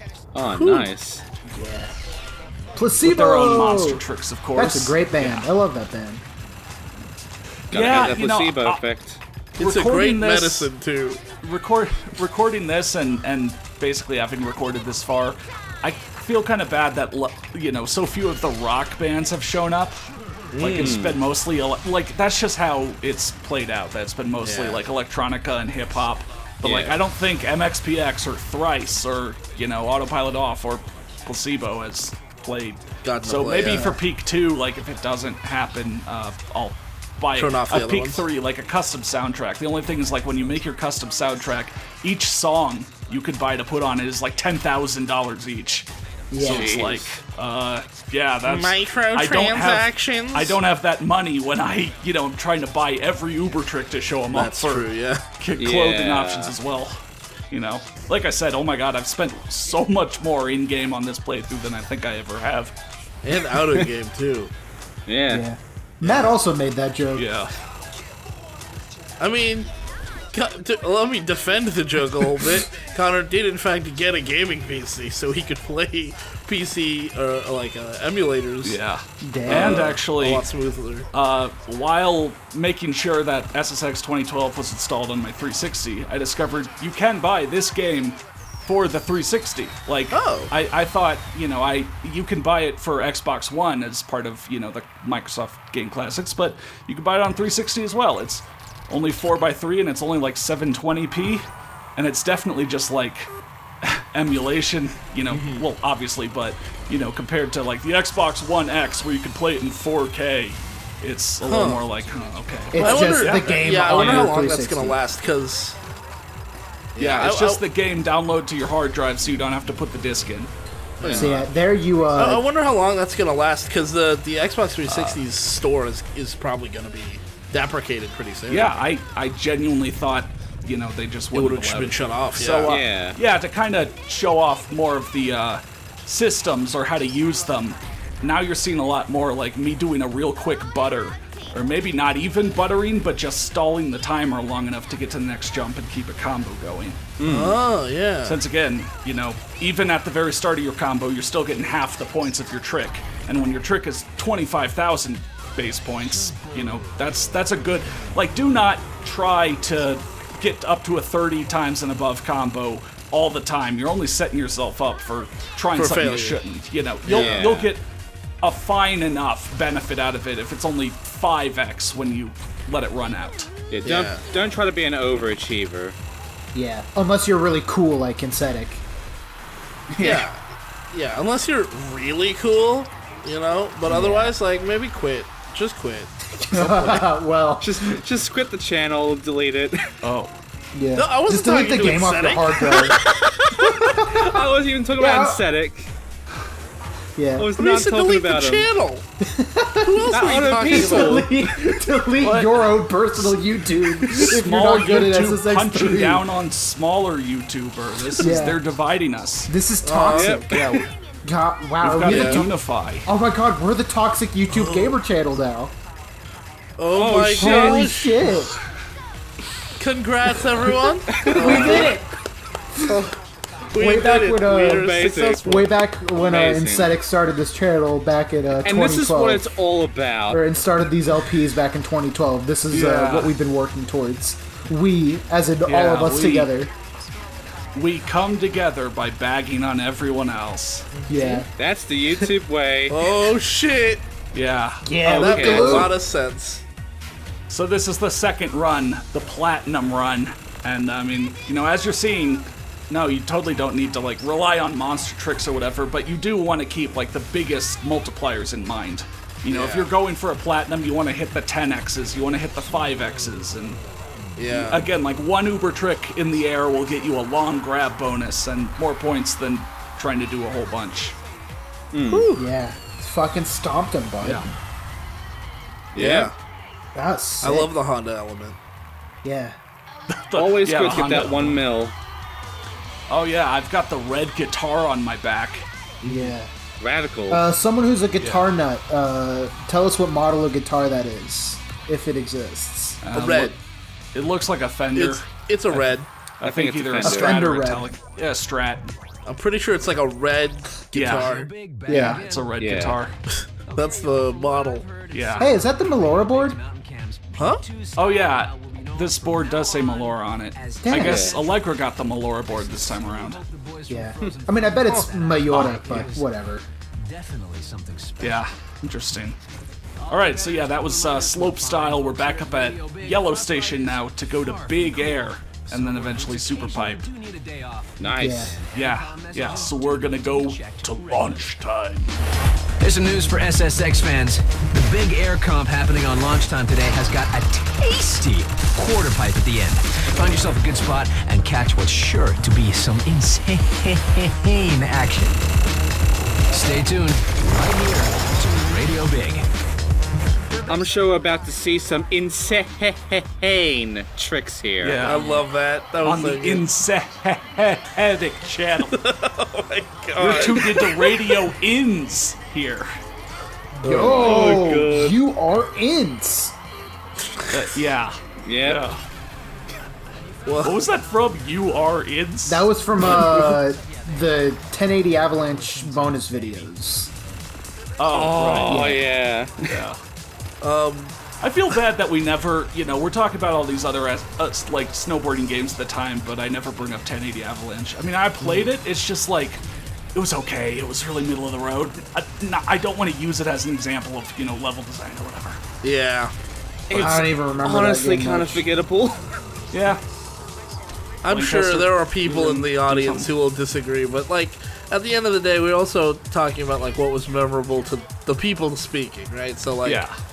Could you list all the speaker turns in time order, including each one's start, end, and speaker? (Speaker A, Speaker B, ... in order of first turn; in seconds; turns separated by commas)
Speaker A: 0.3-1.2, Speaker B: 0.5-0.9, Speaker C: 1.5-1.9, Speaker C: 2.7-4.0, Speaker D: 3.0-5.5, Speaker C: 4.5-6.2, Speaker D: 7.7-8.8, Speaker A: 7.7-9.2, Speaker B: 9.6-11.2, Speaker D: 9.6-10.7, Speaker D: 11.4-20.0, Speaker B: 20.5-21.0, Speaker D: 20.6-54.8, Speaker A: 20.7-21.2, Speaker B: 24.4-24.9, Speaker A: 26.6-26.9, Speaker B: 33.0-33.9, Speaker C: 33.7-34.0, Speaker B: 37.3-38.2, Speaker C: 46.3-46.9, Speaker A: 46.4-47.1, Speaker B: 48.4-50.6, Speaker B: 54.3-55.2, Speaker D: 55.4-62.7, Speaker A: 55.6-56.5, Speaker B: 63.2-64.5, Speaker A: 65.1-65.5, Speaker C: 65.3-67.3, Speaker B: 66.0-66.4, Speaker D: 67.2-67.5, Speaker B: 69.2-69.7, Speaker B: 70.3-78.8, Speaker D: 78.6-80.5, Speaker C: 79.2-80.0, Speaker B: 79.5-81.1, Speaker D: 81.1-103.3, Speaker B: 90.1-90.5, Speaker D: 103.8-114.3, Speaker B: 105.3-105.6, Speaker B: 111.4-111.8, Speaker C: 112.7-115.0, Speaker B: 112.8-115.8, Speaker B: 116.9-117.6, Speaker D: 117.0-120.5, Speaker B: 121.0-121.5, Speaker A: 121.0-121.4, Speaker C: 121.1-122.4, Speaker B: 122.1-128.8, Speaker D: 124.9-125.2, Speaker D: 128.5-147.1, Speaker B: 131.3-132.7, Speaker A: 132.7-133.2, Speaker A: 147.2-147.6, Speaker B: 147.2-148.4, Speaker D: 148.2-167.8, Speaker B: 165.7-166.4, Speaker B: 167.0-167.5, Speaker A: 167.1-167.7, Speaker D: 168.4-173.5, Speaker A: 173.7-175.9, Speaker B: 173.8-174.2, Speaker C: 176.5-178.8, Speaker A: 179.9-180.2, Speaker B: 180.0-180.4, Speaker B: 180.9-187.1, Speaker C: 183.9-184.3, Speaker C: 186.3-187.9, Speaker A: 187.6-189.9, Speaker D: 190.0-190.3, Speaker C: 190.7-193.0, Speaker B: 190.9-193.0, Speaker A: 192.7-195.9, Speaker C: 193.7-195.4, Speaker C: 197.2-197.5, Speaker A: 197.4-198.7, Speaker B: 197.6-199.0, Speaker C: 199.2-206.3, Speaker B: 199.8-201.3, Speaker A: 200.1-201.4, Speaker D: 202.2-203.4, Speaker D: 204.0-209.5, Speaker C: 208.2-208.6, Speaker C: 209.5-210.5, Speaker B: 209.8-210.4, Speaker A: 210.1-210.9, Speaker D: 210.5-210.9, Speaker C: 211.2-212.5, Speaker D: 211.8-213.1, Speaker B: 212.0-212.4, Speaker C: 213.1-215.7, Speaker B: 214.5-215.0, Speaker B: 216.8-218.2, Speaker A: 216.9-217.9, Speaker C: 217.4-218.5, Speaker B: 219.8-221.9, Speaker A: 221.1-221.9, Speaker C: 221.3-222.1, Speaker C: 222.7-223.0, Speaker B: 222.9-223.2, Speaker B: 223.7-225.7, Speaker C: 223.8-229.5, Speaker A: 224.7-225.4, Speaker A: 226.1-226.9, Speaker A: 228.6-230.4, Speaker C: 230.3-236.7, Speaker D: 232.7-233.3, Speaker D: 235.6-236.5, Speaker D: 237.7-240.9, Speaker B: 240.9-241.4, Speaker C: 241.1-241.5, Speaker A: 241.6-243.0, Speaker B: 242.9-244.0, Speaker D: 244.3-244.8, Speaker C: 244.8-245.9, Speaker A: 245.0-245.9, Speaker B: 245.1-246.6, Speaker D: 247.5-263.8, Speaker B: 259.5-259.9, Speaker B: 264.4-264.9, Speaker D: 264.5-271.1, Speaker A: 271.9-272.3, Speaker B: 272.1-272.5, Speaker C: 272.4-274.5, Speaker D: 274.2-274.5, Speaker A: 275.9-276.3, Speaker B: 275.9-276.3, Speaker C: 276.9-277.7, Speaker B: 277.4-278.6, Speaker C: 279.2-279.6, Speaker D: 280.1-281.6, Speaker A: 280.3-281.9, Speaker D: 283.1-285.7, Speaker B: 286.0-286.4, Speaker C: 286.0-286.5, Speaker A: 286.8-287.4, Speaker C: 287.3-293.0, Speaker D: 288.2-288.5, Speaker D: 293.0-293.6, Speaker B: 293.1-293.6, Speaker D: 294.1-295.9, Speaker B: 294.9-296.1, Speaker D: 296.4-298.9, Speaker A: 296.4-297.5, Speaker C: 297.0-297.9, Speaker B: 299.2-301.5, Speaker D: 300.9-301.3, Speaker E: 301.1-302.8, Speaker C: 301.9-302.2, Speaker D: 301.9-303.1, Speaker A: 302.6-303.0, Speaker B: 303.3-304.9, Speaker E: 303.6-316.3, Speaker D: 305.1-305.5, Speaker C: 305.4-306.6, Speaker D: 308.0-313.4, Speaker C: 310.8-311.2, Speaker A: 311.0-311.4, Speaker C: 313.9-316.6, Speaker D: 315.5-315.8, Speaker E: 317.0-318.5, Speaker D: 318.2-319.4, Speaker E: 320.0-331.6, Speaker D: 320.1-327.1, Speaker A: 328.0-328.6, Speaker C: 328.2-328.6, Speaker D: 328.7-332.1, Speaker E: 332.8-345.4, Speaker E: 346.5-349.4, Speaker A: 350.6-355.1, Speaker D: 354.8-355.4, Speaker B: 355.0-356.7, Speaker D: 356.0-358.9, Speaker B: 358.9-361.4, Speaker D: 360.2-362.9, Speaker C: 363.8-366.5, Speaker B: 363.8-364.6, Speaker A: 364.2-365.2, Speaker D: 367.5-369.0, Speaker A: 368.4-368.8, Speaker B: 370.4-370.8, Speaker D: 370.6-373.4, Speaker C: 372.4-377.1, Speaker B: 373.1-373.4, Speaker E: 373.8-374.1, Speaker E: 375.3-376.7, Speaker D: 378.0-378.9, Speaker A: 378.1-379.8, Speaker C: 378.7-379.1, Speaker D: 379.7-380.0, Speaker B: 380.6-381.2, Speaker D: 381.4-389.6, Speaker D: 390.1-395.6, Speaker B: 395.8-396.3, Speaker A: 396.9-399.2, Speaker D: 396.9-397.2, Speaker C: 396.9-398.7, Speaker D: 399.7-400.0, Speaker B: 401.2-410.0, Speaker D: 401.2-403.3, Speaker D: 409.8-410.1